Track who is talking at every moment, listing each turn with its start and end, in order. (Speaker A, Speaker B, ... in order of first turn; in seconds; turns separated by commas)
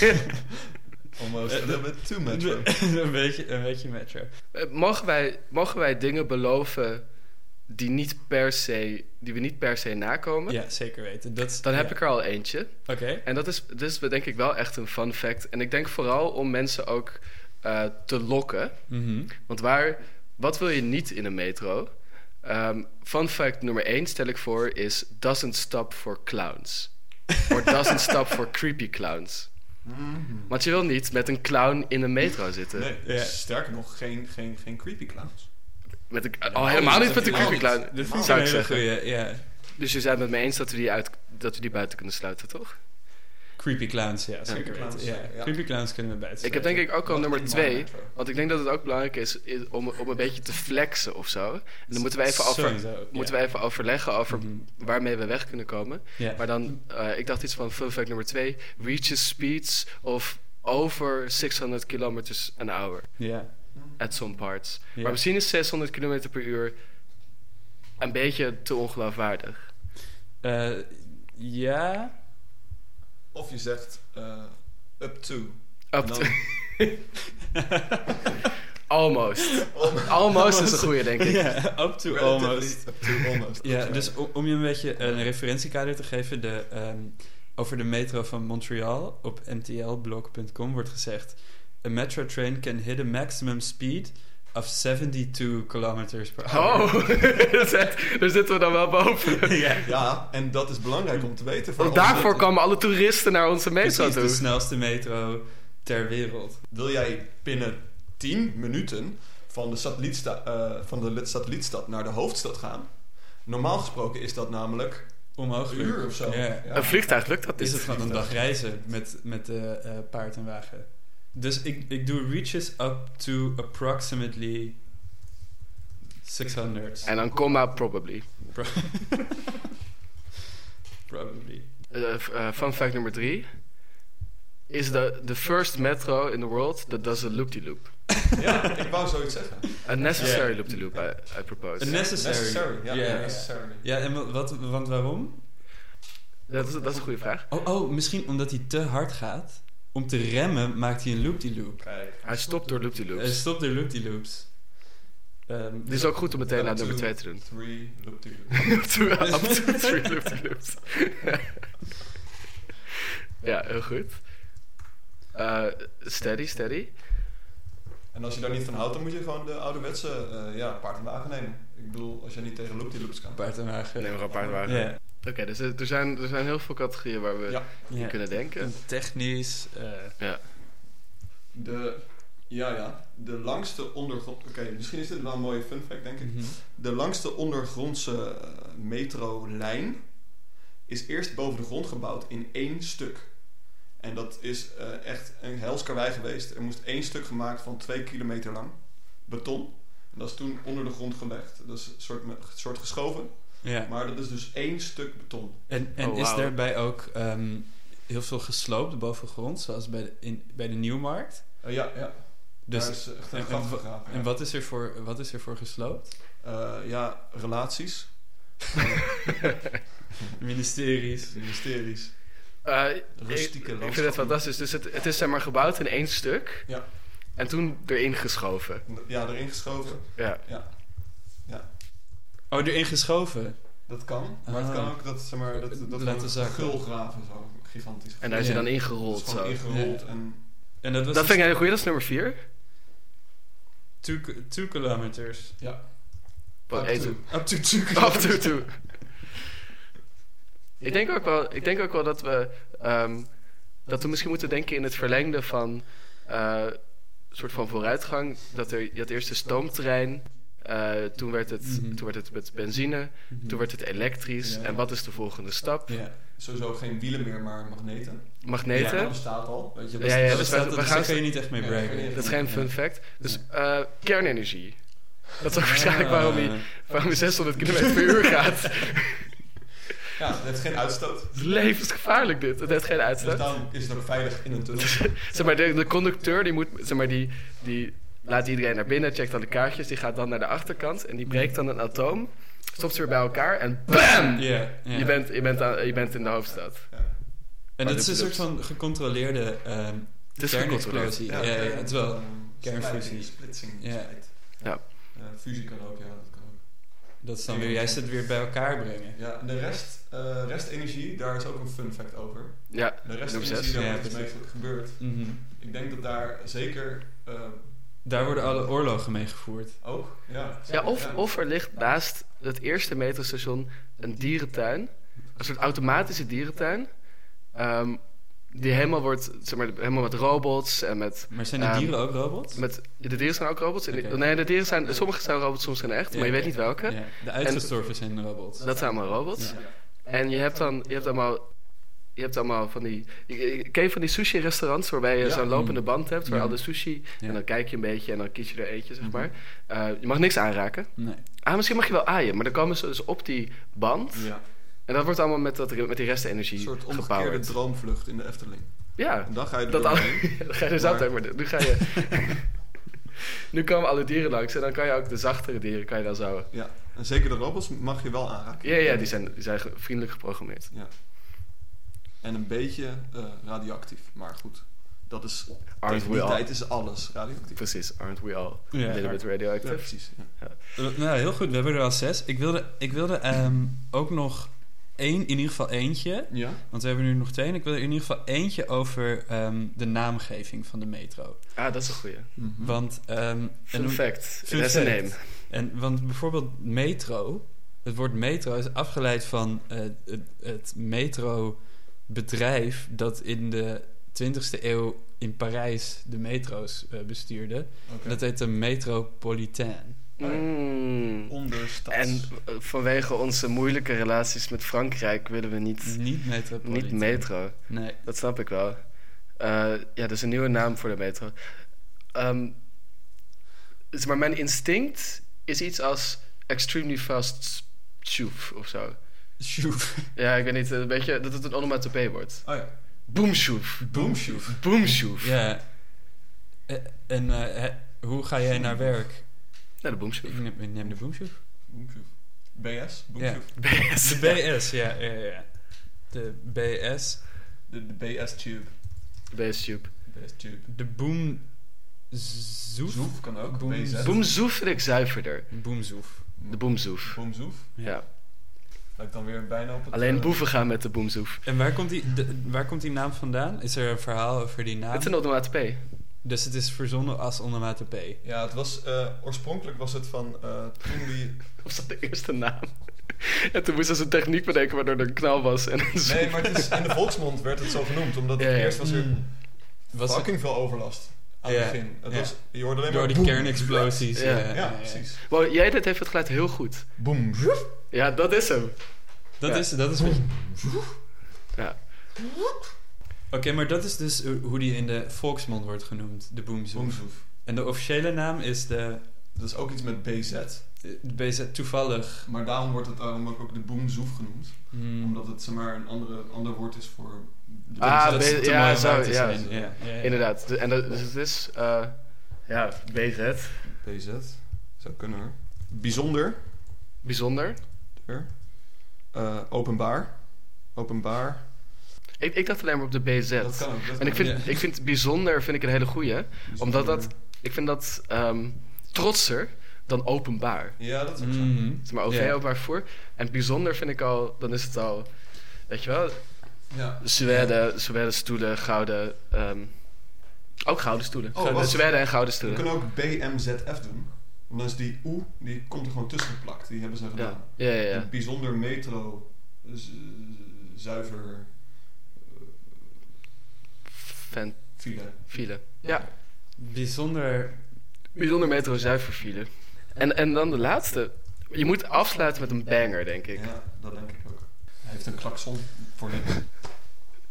Speaker A: 1.1-2.8, Speaker B: 1.5-4.4, Speaker C: 4.5-7.1, Speaker C: 7.7-11.1, Speaker B: 10.5-13.2, Speaker C: 11.6-29.8, Speaker B: 18.9-19.3, Speaker A: 29.8-30.5, Speaker C: 30.5-32.9, Speaker A: 32.8-35.5, Speaker B: 33.0-33.4, Speaker C: 36.1-39.1, Speaker B: 36.5-39.5, Speaker A: 36.6-38.4, Speaker C: 39.7-42.8, Speaker B: 43.6-46.9, Speaker A: 44.5-45.9, Speaker C: 46.4-66.8, Speaker A: 46.4-48.2, Speaker B: 51.9-53.4, Speaker B: 54.3-54.6, Speaker B: 56.2-56.5, Speaker B: 63.2-63.5, Speaker A: 63.7-64.2, Speaker B: 64.9-65.2, Speaker C: 68.0-69.7, Speaker B: 70.4-72.1, Speaker A: 73.3-76.9, Speaker C: 75.9-77.0, Speaker C: 78.9-81.7, Speaker A: 79.7-80.9, Speaker B: 81.2-97.2, Speaker A: 82.0-85.3, Speaker C: 96.4-99.8, Speaker B: 99.4-100.3, Speaker A: 99.8-102.3, Speaker C: 101.8-104.4, Speaker B: 101.8-102.5, Speaker B: 103.8-106.6, Speaker A: 106.7-118.8, Speaker B: 115.3-124.8, Speaker C: 116.7-118.2, Speaker B: 126.2-127.2, Speaker C: 127.0-128.6, Speaker B: 128.5-129.4, Speaker B: 131.1-131.7, Speaker C: 131.9-133.9, Speaker C: 134.7-138.3, Speaker A: 138.3-141.1, Speaker C: 139.8-142.1, Speaker B: 140.1-145.6, Speaker A: 141.7-143.8, Speaker C: 146.5-147.5, Speaker B: 147.5-151.9, Speaker A: 151.8-152.9, Speaker C: 152.2-153.5, Speaker B: 153.1-156.2, Speaker A: 155.9-158.9, Speaker C: 155.9-157.5, Speaker C: 158.7-161.6, Speaker B: 159.3-160.1, Speaker C: 163.4-164.7, Speaker C: 165.3-167.0, Speaker A: 168.1-173.8, Speaker B: 173.3-175.0, Speaker C: 174.0-178.8, Speaker A: 174.3-174.7, Speaker B: 177.9-180.2, Speaker C: 180.2-180.4, Speaker A: 181.5-205.7, Speaker B: 186.2-186.5, Speaker B: 203.6-203.9, Speaker B: 205.7-211.8, Speaker C: 206.0-206.6, Speaker A: 211.6-214.3, Speaker B: 212.7-216.1, Speaker A: 216.4-219.8, Speaker B: 220.4-221.5, Speaker A: 221.3-222.3, Speaker C: 222.6-228.8, Speaker A: 223.1-224.4, Speaker A: 228.8-231.7, Speaker C: 230.2-230.4, Speaker B: 232.5-233.8, Speaker A: 233.9-240.5, Speaker B: 234.4-236.8, Speaker C: 238.2-239.6, Speaker B: 238.4-238.7, Speaker B: 239.7-241.5, Speaker C: 241.1-242.4, Speaker B: 244.0-245.7, Speaker A: 245.6-247.3, Speaker C: 246.7-249.1, Speaker B: 246.7-248.9, Speaker C: 250.8-266.0, Speaker B: 261.6-262.1, Speaker B: 263.3-263.6, Speaker A: 264.4-264.8, Speaker B: 265.9-266.2, Speaker A: 266.2-271.0, Speaker C: 268.4-269.4, Speaker B: 268.7-273.2, Speaker C: 270.0-271.6, Speaker A: 271.5-272.7, Speaker C: 272.1-279.3, Speaker B: 275.6-276.8, Speaker A: 276.9-278.4, Speaker B: 277.7-278.1, Speaker A: 280.1-281.4, Speaker C: 281.3-283.5, Speaker A: 283.2-285.2, Speaker C: 284.8-298.5, Speaker B: 294.4-295.1, Speaker A: 296.9-297.1, Speaker B: 297.8-304.6, Speaker C: 300.4-301.6, Speaker A: 301.2-318.8, Speaker B: 307.2-309.2, Speaker C: 312.7-314.0, Speaker B: 313.7-315.4, Speaker B: 318.0-320.1, Speaker A: 319.8-321.2, Speaker C: 320.7-338.0, Speaker B: 331.3-332.6, Speaker B: 333.9-334.2, Speaker B: 336.1-339.6, Speaker C: 338.6-357.6, Speaker B: 345.2-347.4, Speaker A: 349.0-349.3, Speaker B: 351.0-351.2, Speaker A: 354.1-354.4, Speaker A: 356.6-361.6, Speaker C: 359.0-362.5, Speaker C: 363.5-366.5, Speaker A: 366.5-369.2, Speaker C: 368.6-370.7, Speaker A: 372.2-377.6, Speaker C: 375.8-376.8, Speaker C: 377.5-380.6, Speaker B: 378.7-379.3, Speaker A: 379.6-380.3, Speaker B: 380.8-391.6, Speaker A: 386.3-386.6, Speaker C: 391.6-392.3, Speaker A: 392.4-392.8, Speaker B: 392.6-410.0, Speaker C: 393.7-395.4, Speaker A: 407.9-408.2, Speaker C: 410.2-411.3, Speaker A: 410.2-412.3, Speaker C: 411.9-422.6, Speaker B: 415.8-418.0, Speaker C: 423.9-429.0, Speaker B: 429.4-430.1, Speaker C: 430.1-435.4, Speaker A: 432.4-432.7, Speaker B: 433.8-439.6, Speaker A: 433.9-434.6, Speaker A: 438.5-439.1, Speaker C: 439.8-440.4, Speaker B: 440.2-441.4, Speaker A: 440.8-443.6, Speaker B: 443.2-447.2, Speaker C: 443.6-444.5, Speaker A: 447.7-448.7, Speaker C: 449.3-449.9, Speaker A: 450.1-450.7, Speaker B: 450.7-454.5, Speaker A: 452.9-454.3, Speaker C: 454.0-458.1, Speaker B: 455.5-456.3, Speaker A: 456.4-457.7, Speaker A: 458.9-460.5, Speaker C: 459.9-461.4, Speaker B: 461.4-465.4, Speaker C: 464.9-465.9, Speaker B: 466.2-468.2, Speaker A: 468.2-471.6, Speaker C: 471.6-476.9, Speaker A: 476.0-485.2, Speaker C: 478.4-478.9, Speaker B: 478.8-480.8, Speaker B: 481.4-485.1, Speaker C: 484.1-487.0, Speaker A: 487.0-487.8, Speaker C: 487.9-489.7, Speaker B: 489.4-490.8, Speaker C: 491.5-491.9, Speaker B: 493.3-499.2, Speaker A: 496.7-497.2, Speaker A: 499.3-500.7, Speaker B: 500.8-502.3, Speaker A: 502.2-509.8, Speaker B: 504.7-505.2, Speaker B: 507.8-510.2, Speaker C: 507.8-513.7, Speaker A: 513.6-516.5, Speaker C: 517.0-517.6, Speaker A: 518.0-521.5, Speaker C: 522.2-530.8, Speaker A: 523.4-524.6, Speaker B: 524.1-524.5, Speaker A: 526.5-527.1, Speaker A: 530.8-531.8, Speaker B: 531.2-532.4, Speaker C: 531.8-542.7, Speaker A: 536.7-537.1, Speaker B: 537.2-537.5, Speaker A: 541.3-552.5, Speaker B: 541.4-541.7, Speaker C: 547.1-548.1, Speaker C: 554.2-556.1, Speaker A: 554.8-556.0, Speaker B: 556.6-557.8, Speaker C: 558.1-563.5, Speaker A: 563.3-566.7